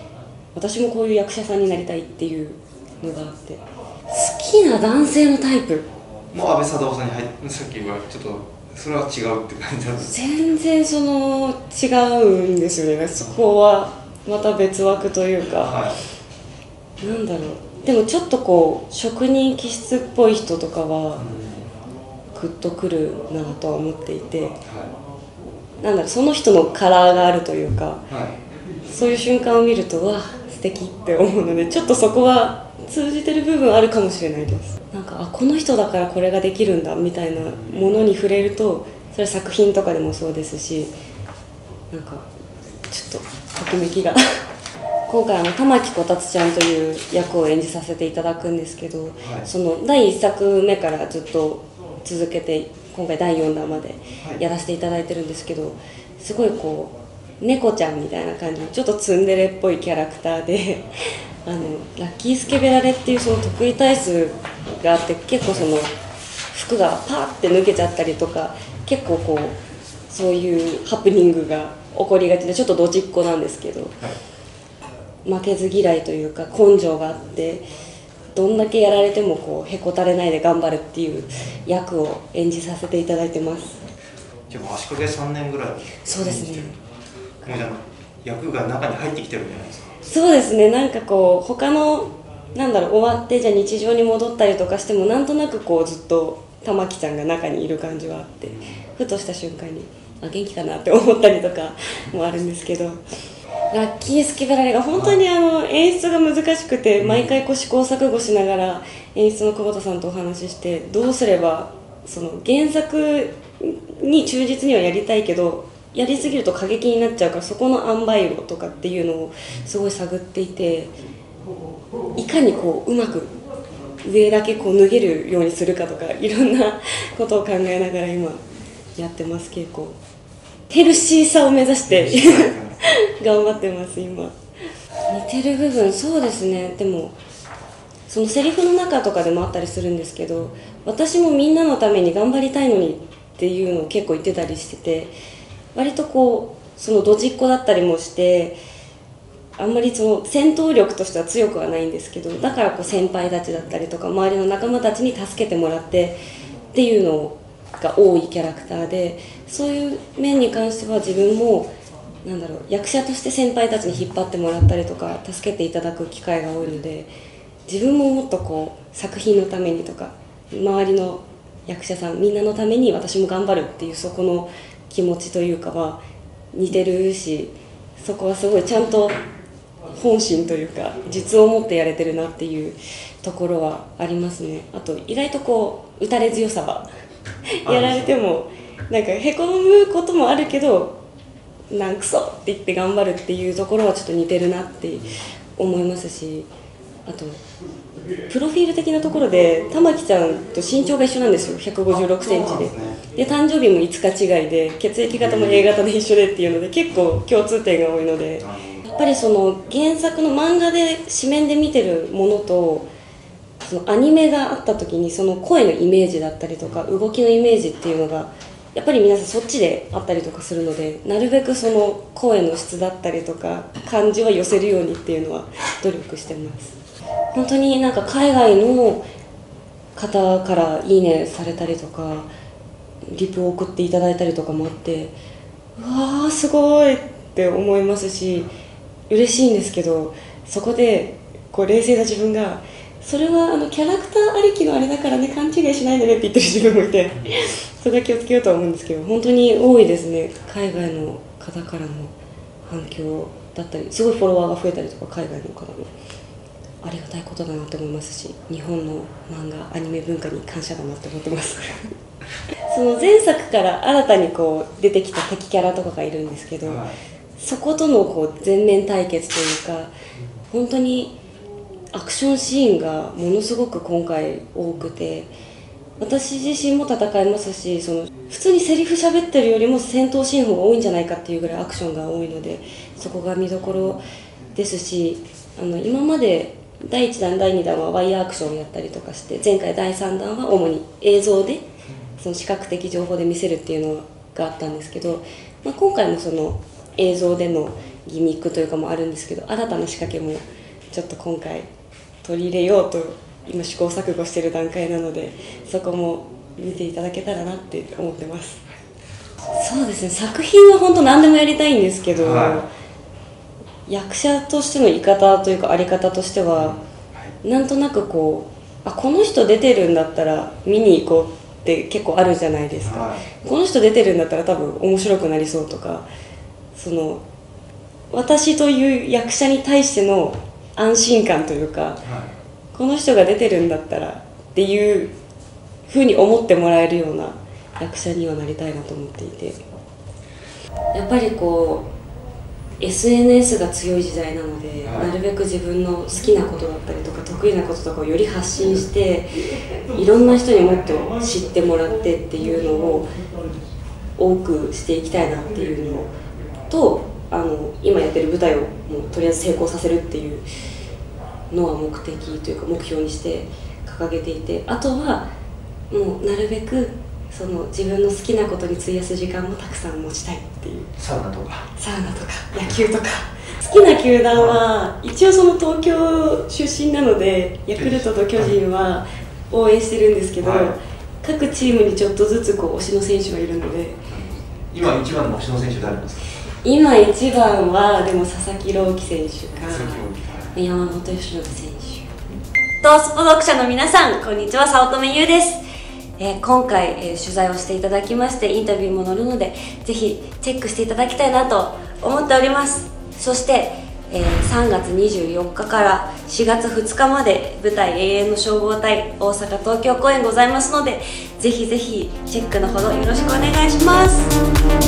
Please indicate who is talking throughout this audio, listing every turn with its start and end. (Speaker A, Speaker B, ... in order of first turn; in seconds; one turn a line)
Speaker A: 0.5-5.8
Speaker B: 6.3-10.1
Speaker A: 10.0-15.8
Speaker B: 15.6-16.0
Speaker A: 17.0-21.3
Speaker B: 21.2-21.6
Speaker A: 22.3-24.6
Speaker B: 24.6-24.9
Speaker A: 25.8-28.1
Speaker B: 28.1-28.4
Speaker A: 28.9-40.9
Speaker A: 41.9-42.3
Speaker A: 42.9-44.2
Speaker A: 45.1-60.9
Speaker A: 61.5-65.9
Speaker A: 66.5-74.0
Speaker A: 75.2-77.7
Speaker A: 78.3-83.8
Speaker B: 84.5-86.7
Speaker A: 86.0-86.8
Speaker B: 87.4-89.9
Speaker A: 90.0-103.0
Speaker A: 103.7-120.9
Speaker B: 107.0-107.3
Speaker A: 122.2-123.3
Speaker A: 124.0-128.4
Speaker A: 128.9-130.0
Speaker A: 130.7-134.3
Speaker B: 131.9-132.8
Speaker A: 135.1-137.2
Speaker A: 138.1-145.1
Speaker A: 145.7-148.6
Speaker A: 149.6-156.2
Speaker A: 156.7-167.1
Speaker A: 167.7-176.0
Speaker A: 176.5-179.2
Speaker A: 179.9-186.9
Speaker A: 187.6-191.0
Speaker B: 187.7-188.1
Speaker A: 191.7-196.5
Speaker A: 197.1-197.4
Speaker A: 198.3-212.9
Speaker B: 202.2-203.0
Speaker B: 208.4-208.8
Speaker A: 213.6-226.7
Speaker A: 227.3-229.0
Speaker A: 229.9-232.3
Speaker A: 233.1-235.2
Speaker A: 235.8-238.5
Speaker A: 239.1-252.1
Speaker A: 252.7-255.9
Speaker A: 256.8-261.9
Speaker A: 262.7-266.8
Speaker B: 266.6-266.9
Speaker A: 267.4-269.9
Speaker A: 270.5-271.2
Speaker A: 271.9-275.3
Speaker A: 276.0-291.6
Speaker A: 292.2-301.7
Speaker A: 302.2-308.6
Speaker A: 309.5-312.7
Speaker B: 312.1-312.6
Speaker A: 313.9-316.8
Speaker B: 316.6-317.3
Speaker A: 317.4-326.1
Speaker B: 322.8-323.2
Speaker A: 326.7-327.2
Speaker A: 328.1-332.0
Speaker B: 332.0-332.3
Speaker A: 332.7-335.1
Speaker A: 335.9-339.6
Speaker A: 340.9-341.9
Speaker A: 342.8-349.3
Speaker B: 344.8-345.1
Speaker A: 349.9-353.1
Speaker A: 354.2-356.1
Speaker A: 356.7-360.4
Speaker A: 361.5-365.3
Speaker A: 365.9-370.9
Speaker B: 371.0-371.7
Speaker A: 371.8-384.0
Speaker B: 377.8-378.5
Speaker B: 380.4-380.7
Speaker B: 384.1-386.2
Speaker A: 386.6-392.1
Speaker B: 389.6-390.5
Speaker A: 392.8-395.6
Speaker A: 396.2-414.3